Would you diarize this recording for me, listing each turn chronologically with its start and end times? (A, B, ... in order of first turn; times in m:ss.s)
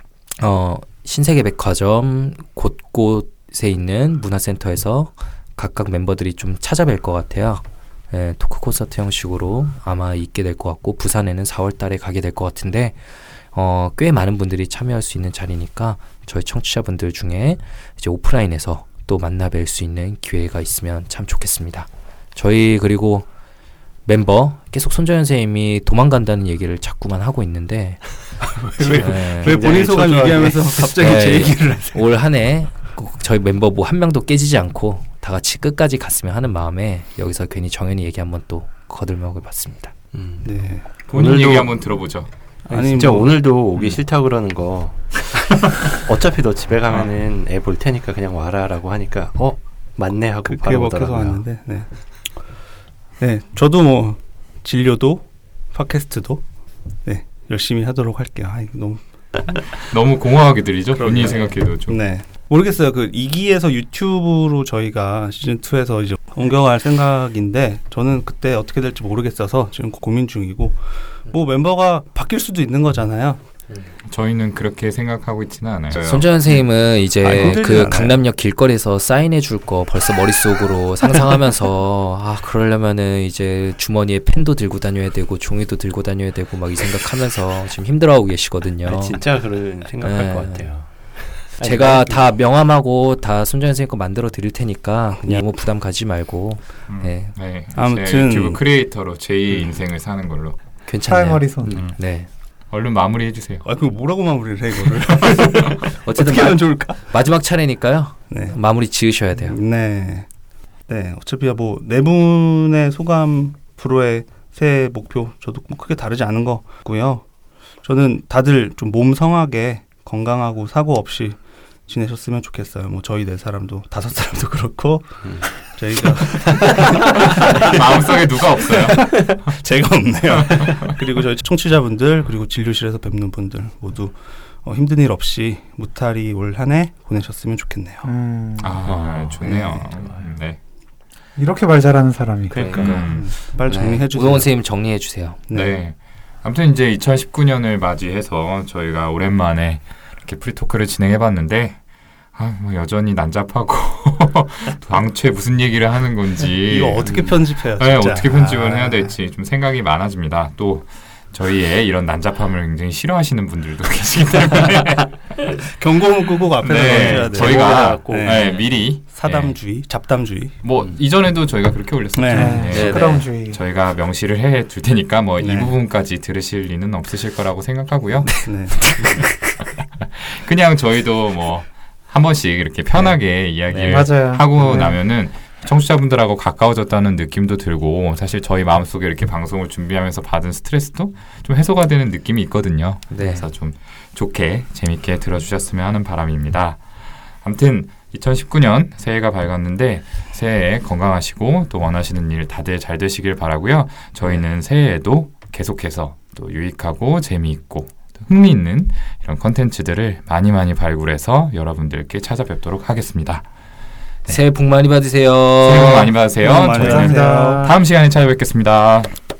0:00.4-0:13.0 A
0:13.5-0:23.2 A
0:24.0-0:28.2 A
0:28.5-0:32.1 B
0:28.9-0:30.9 C
0:28.9-0:29.6 A
0:30.8-0:39.9 A
0:40.1-0:40.5 C
0:40.4-0:40.9 B
0:41.1-0:42.3 D
0:41.1-0:41.8 C
0:42.7-0:43.3 B
0:42.7-0:51.4 C
0:50.4-0:51.9 B
0:53.2-0:56.4 B
0:57.0-0:59.8 B
0:59.8-1:02.0 D
1:00.9-1:13.4 B
1:14.1-1:16.6 D
1:15.9-1:29.2 A
1:17.2-1:18.2 B
1:28.8-1:30.9 C
1:30.0-1:30.6 A
1:31.4-1:32.3 C
1:31.6-1:37.3 A
1:36.9-1:40.6 D
1:37.7-1:38.6 B
1:40.9-1:42.3 A
1:41.0-1:41.8 E
1:41.7-1:42.0 D
1:42.7-1:43.6 D
1:43.6-1:47.0 B
1:45.3-1:45.7 D
1:46.0-1:49.6 A
1:48.3-1:48.6 B
1:49.4-1:50.3 B
1:50.9-1:57.2 B
1:57.8-2:18.1 B
2:07.0-2:09.3 D
2:18.0-2:18.8 E
2:18.6-2:20.6 D
2:18.8-2:20.3 C
2:21.4-2:22.6 E
2:22.5-2:23.1 C
2:22.5-2:24.5 B
2:22.8-2:23.3 D
2:23.6-2:25.4 A
2:25.5-2:25.8 B
2:25.5-2:31.8 D
2:32.3-2:45.4 D
2:36.6-2:39.1 B
2:37.0-2:37.4 C
2:45.7-2:50.6 B
2:46.6-2:49.6 D
2:46.8-2:48.5 C
2:50.6-2:58.5 D
2:52.1-2:52.7 B
2:52.3-2:53.6 E
2:52.7-2:53.3 A
2:55.4-2:55.7 B
2:58.2-2:59.6 A
2:58.4-2:58.9 B
3:00.0-3:16.8 D
3:03.0-3:04.1 A
3:03.8-3:05.0 E
3:13.1-3:13.4 A
3:17.4-3:33.4 D
3:34.3-3:36.1 A
3:35.6-3:39.1 D
3:36.4-3:37.6 B
3:36.4-3:37.8 E